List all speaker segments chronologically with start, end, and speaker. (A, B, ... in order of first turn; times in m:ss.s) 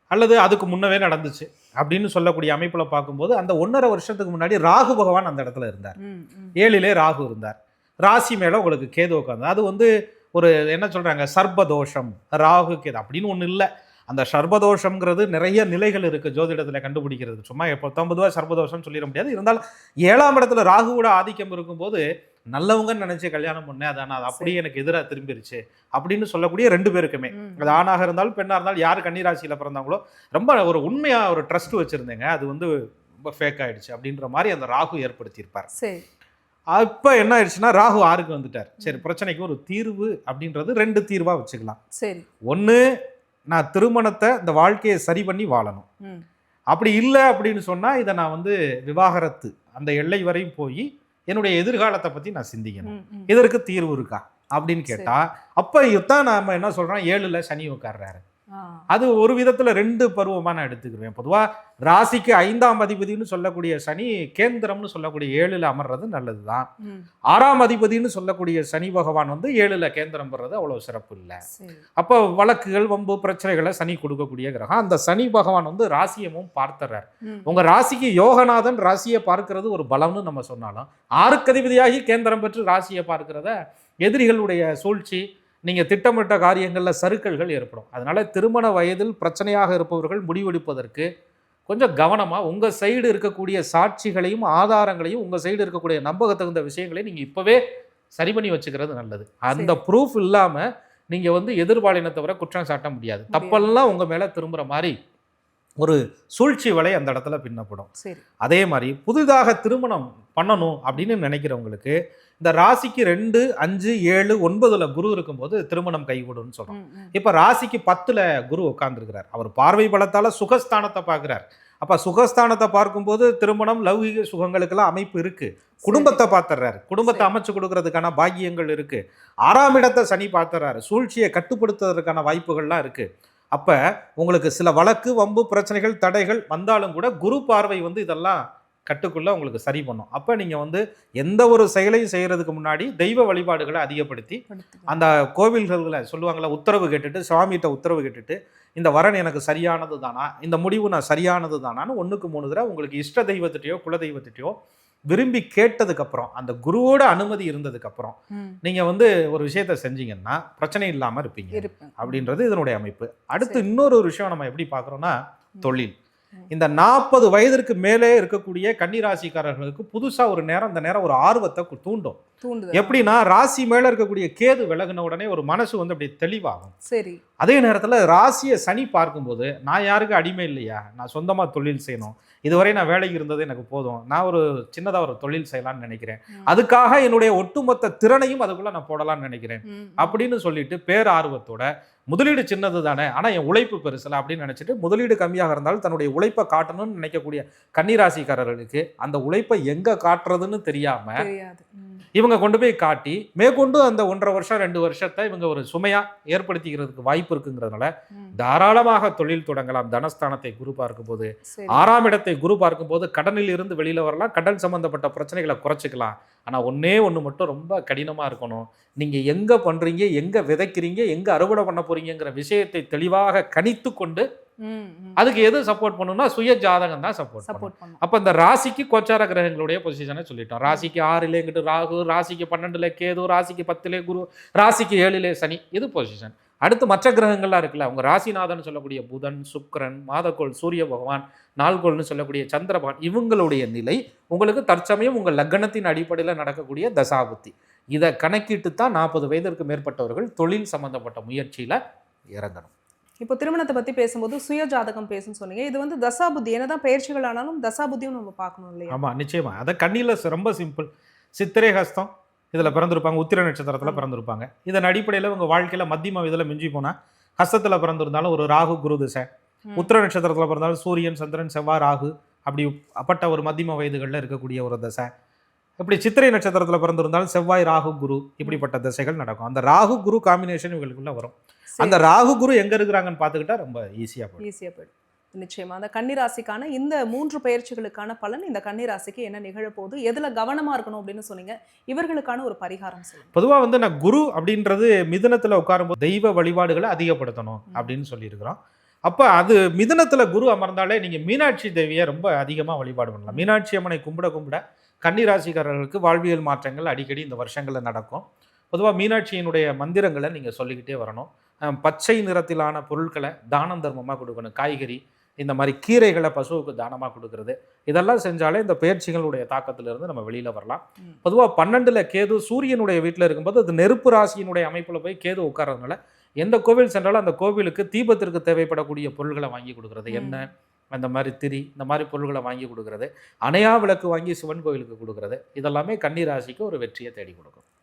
0:00.1-0:06.0 A
0:06.0-0:06.6 B
0:06.6-0:32.7 A
0:27.3-0:27.8 B
0:33.2-0:35.7 A
0:35.7-0:36.0 B
0:36.7-0:41.8 A
0:42.0-0:42.3 B
0:42.5-0:42.8 A
0:43.5-0:45.8 A
0:46.7-0:58.2 A
0:52.8-0:53.3 B
0:58.5-0:58.8 B
0:58.9-1:06.7 A
1:07.3-1:11.4 A
1:11.5-1:11.8 B
1:12.0-1:31.1 A
1:17.3-1:17.5 B
1:31.7-1:37.6 A
1:38.2-1:44.9 A
1:43.3-1:43.7 B
1:45.8-1:47.9 A
1:48.0-1:48.2 B
1:48.4-2:34.6 A
1:56.7-1:57.1 B
2:05.8-2:06.2 B
2:07.0-2:07.3 B
2:24.5-2:24.9 B
2:35.1-2:45.9 A
2:41.5-2:42.3 B
2:46.5-2:52.2 A
2:52.4-2:53.1 B
2:52.7-2:56.7 A
2:56.8-2:57.2 B
2:57.4-3:21.2 A
3:09.6-3:10.2 B
3:21.2-3:22.0 B
3:22.2-3:44.2 A
3:31.5-3:31.8 B
3:44.6-3:45.2 B
3:45.2-4:11.8 A
3:47.4-3:48.0 B
4:12.3-4:12.7 A
4:13.2-4:19.0 B
4:18.9-4:35.1 A
4:35.8-4:44.4 A
4:41.8-4:42.0 B
4:44.4-4:53.3 B
4:53.3-5:37.6 A
5:30.1-5:30.4 B